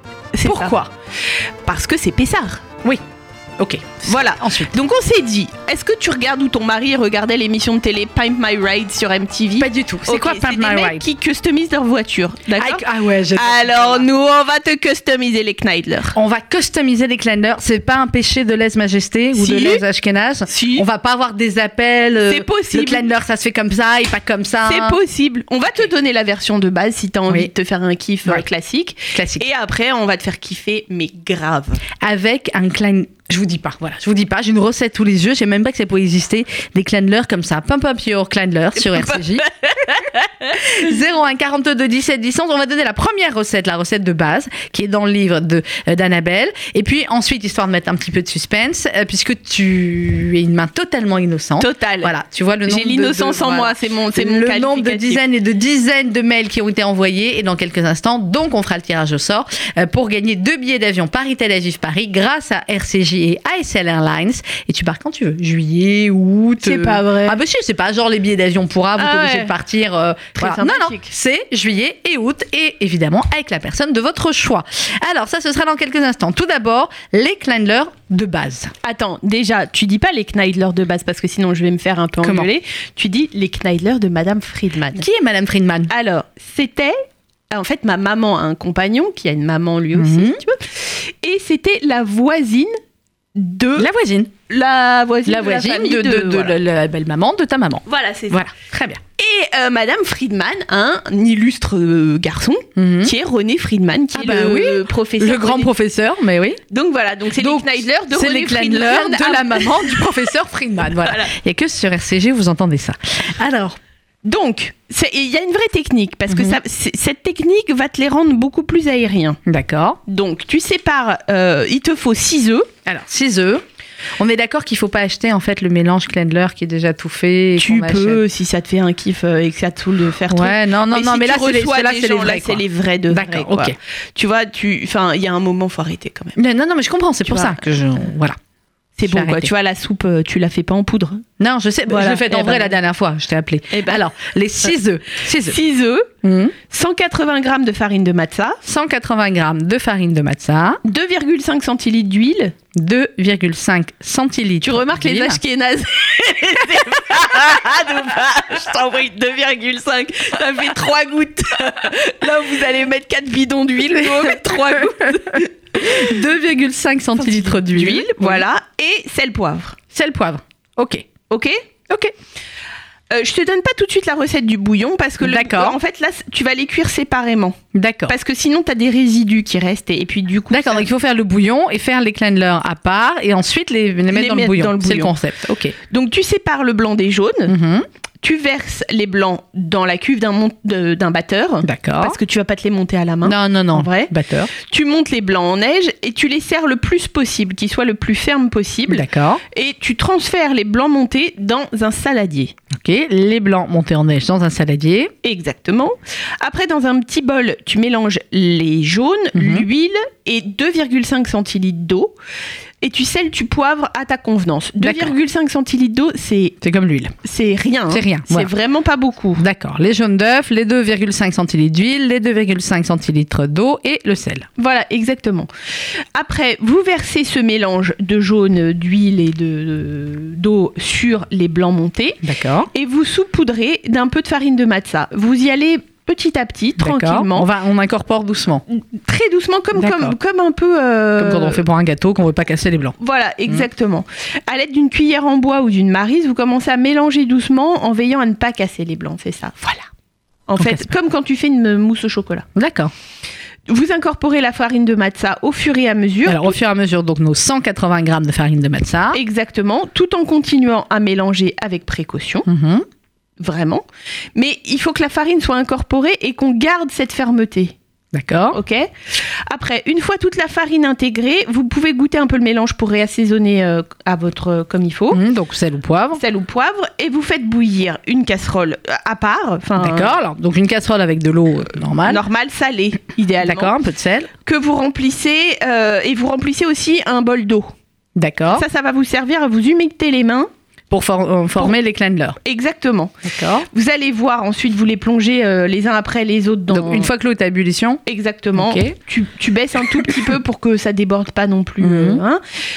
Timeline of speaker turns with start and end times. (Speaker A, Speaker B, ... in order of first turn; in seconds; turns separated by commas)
Speaker A: 0.3-0.7, Speaker B: 0.4-0.9, Speaker A: 1.6-2.6, Speaker B: 3.6-4.8, Speaker A: 4.0-16.1, Speaker B: 9.6-11.0, Speaker B: 12.5-14.1, Speaker B: 16.1-25.0, Speaker A: 19.3-19.8, Speaker A: 20.5-20.9, Speaker A: 22.2-23.0, Speaker A: 24.6-31.8, Speaker B: 29.1-29.5, Speaker B: 32.0-39.5, Speaker A: 38.8-40.5, Speaker B: 40.5-78.7, Speaker A: 51.6-52.1, Speaker A: 52.7-55.2, Speaker A: 66.6-67.4, Speaker A: 69.0-69.5, Speaker A: 70.4-71.1, Speaker A: 78.8-85.0, Speaker B: 82.2-82.5, Speaker B: 85.0-85.9, Speaker A: 85.9-92.8, Speaker B: 89.9-90.4, Speaker A: 93.3-93.9, Speaker B: 93.8-94.3, Speaker A: 94.5-96.6, Speaker B: 95.2-99.0, Speaker A: 97.8-98.4, Speaker A: 99.2-105.7, Speaker B: 102.8-103.1, Speaker B: 104.1-106.6, Speaker A: 106.7-110.3, Speaker B: 107.4-113.8, Speaker A: 111.0-111.3, Speaker A: 114.2-119.4, Speaker B: 116.3-116.6, Speaker B: 119.5-120.0, Speaker A: 120.0-122.7, Speaker B: 122.8-123.6, Speaker B: 124.2-128.2, Speaker A: 127.6-136.4, Speaker B: 130.3-133.8, Speaker B: 136.4-138.4, Speaker A: 137.3-137.6, Speaker A: 139.0-141.2, Speaker B: 139.1-139.5, Speaker B: 141.4-145.6, Speaker A: 141.9-142.8, Speaker A: 143.7-144.0, Speaker A: 145.4-146.1, Speaker B: 146.2-146.5, Speaker A: 146.6-148.6, Speaker B: 148.6-150.8, Speaker A: 150.8-152.5, Speaker B: 152.8-155.4, Speaker A: 154.6-166.1, Speaker B: 164.0-164.4, Speaker B: 165.0-168.4, Speaker A: 167.2-169.8, Speaker B: 169.9-171.1, Speaker A: 171.3-171.6, Speaker A: 173.1-180.8, Speaker B: 175.2-175.8, Speaker B: 177.7-178.2, Speaker B: 180.5-185.7, Speaker A: 184.1-185.2, Speaker A: 185.9-187.5, Speaker B: 187.5-187.8, Speaker A: 188.2-202.5, Speaker B: 191.6-192.2, Speaker B: 193.2-194.5, Speaker B: 198.9-199.4, Speaker B: 202.7-205.1, Speaker A: 205.2-212.1, Speaker B: 209.3-209.7, Speaker A: 212.8-216.6, Speaker B: 214.8-215.1, Speaker B: 216.6-217.1, Speaker A: 217.2-219.4, Speaker B: 217.9-218.5, Speaker B: 219.4-224.5, Speaker A: 224.6-225.5, Speaker A: 226.1-237.5, Speaker B: 232.2-232.7, Speaker B: 236.8-238.6, Speaker A: 238.7-241.6, Speaker B: 239.8-240.2, Speaker B: 241.2-242.9, Speaker A: 243.0-249.8, Speaker A: 250.5-252.4, Speaker B: 250.6-250.9, Speaker B: 252.5-252.9, Speaker A: 253.7-256.5, Speaker B: 256.2-259.2, Speaker A: 259.1-262.4, Speaker B: 262.4-262.9, Speaker A: 263.4-267.7, Speaker B: 268.1-268.6, Speaker A: 268.5-275.2, Speaker B: 275.1-276.2, Speaker A: 276.1-280.1, Speaker B: 279.8-282.2, Speaker A: 282.1-283.7, Speaker B: 283.4-284.3, Speaker A: 284.4-287.7, Speaker B: 288.1-288.6, Speaker A: 288.5-290.5, Speaker B: 290.9-292.4, Speaker A: 292.4-293.1, Speaker B: 293.2-293.6, Speaker A: 293.7-297.1, Speaker B: 296.7-298.0, Speaker A: 298.1-302.4, Speaker B: 298.6-298.9, Speaker B: 299.9-300.1, Speaker B: 301.8-302.2